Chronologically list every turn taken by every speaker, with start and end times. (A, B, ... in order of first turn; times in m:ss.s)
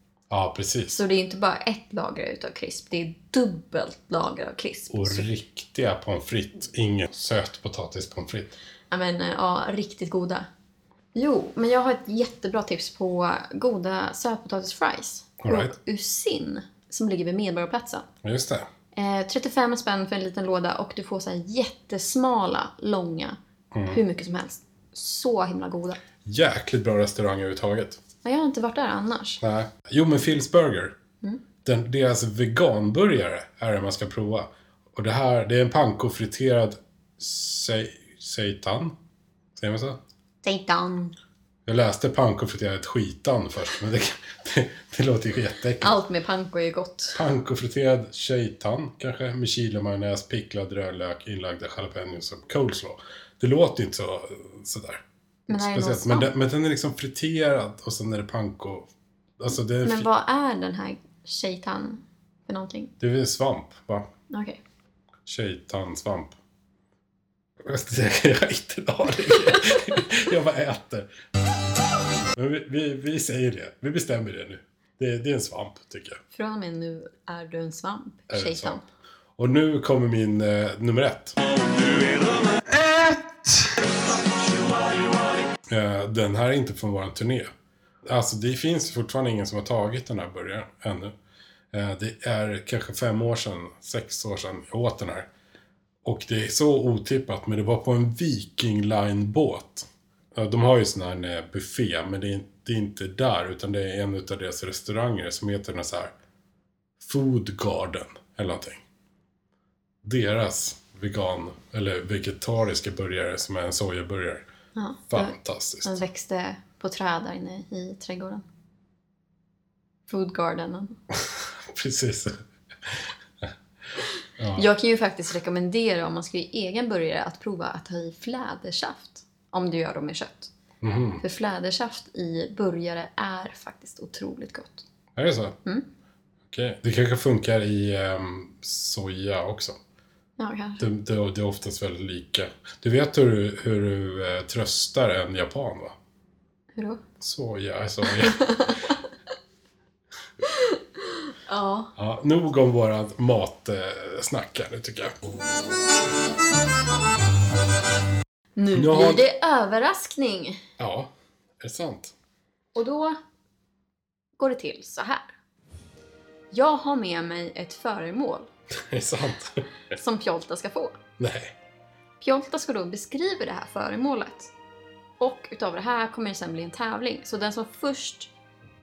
0:00.3-0:01.0 A
0:00.9-0:05.3 B
0:04.9-0:08.6 A
0:08.9-0:10.5 B
0:11.1-0:18.1 B
0:15.4-0:15.7 A
0:18.2-0:18.7 A
0:18.9-0:26.0 B
0:23.7-0:24.0 A
0:26.2-0:28.0 A
0:28.2-0:29.4 B
0:29.4-0:31.0 A
0:31.6-0:38.9 A
0:39.6-0:40.0 A
0:40.4-0:41.1 B
0:41.6-0:46.0 A
0:45.8-0:47.2 B
0:47.1-1:00.1 A
0:55.5-0:56.3 B
0:59.8-1:02.9 B
1:03.0-1:04.1 A
1:04.3-1:04.6 B
1:05.2-1:06.3 A
1:07.6-1:11.1 A
1:12.3-1:16.2 A
1:16.3-1:18.8 B
1:18.3-1:18.8 A
1:19.4-1:21.4 A
1:25.7-1:27.5 A
1:28.0-1:31.1 A
1:31.7-1:35.3 A
1:36.0-1:46.1 A
1:47.0-1:48.8 A
1:50.0-1:54.4 A
1:54.8-1:58.4 B
1:55.1-1:56.0 A
2:00.1-2:01.0 B
2:01.1-2:03.5 A
2:04.4-2:04.7 A
2:04.6-2:10.5 B
2:10.8-2:11.2 A
2:11.2-2:14.8 B
2:15.2-2:15.6 A
2:16.5-2:19.8 A
2:20.4-2:20.8 B
2:20.8-2:25.9 A
2:26.8-2:27.0 B
2:27.2-2:28.7 A
2:28.1-2:28.8 B
2:31.5-2:31.9 B
2:32.0-2:35.2 A
2:38.6-2:40.6 B
2:38.7-2:39.2 A
2:40.8-2:42.1 A
2:42.7-2:43.2 B
2:44.4-2:45.3 B
2:46.5-2:48.5 B
2:48.7-2:49.6 A
2:49.9-2:51.0 B
2:51.2-2:51.5 A
2:52.2-2:54.5 B
2:55.2-2:58.3 B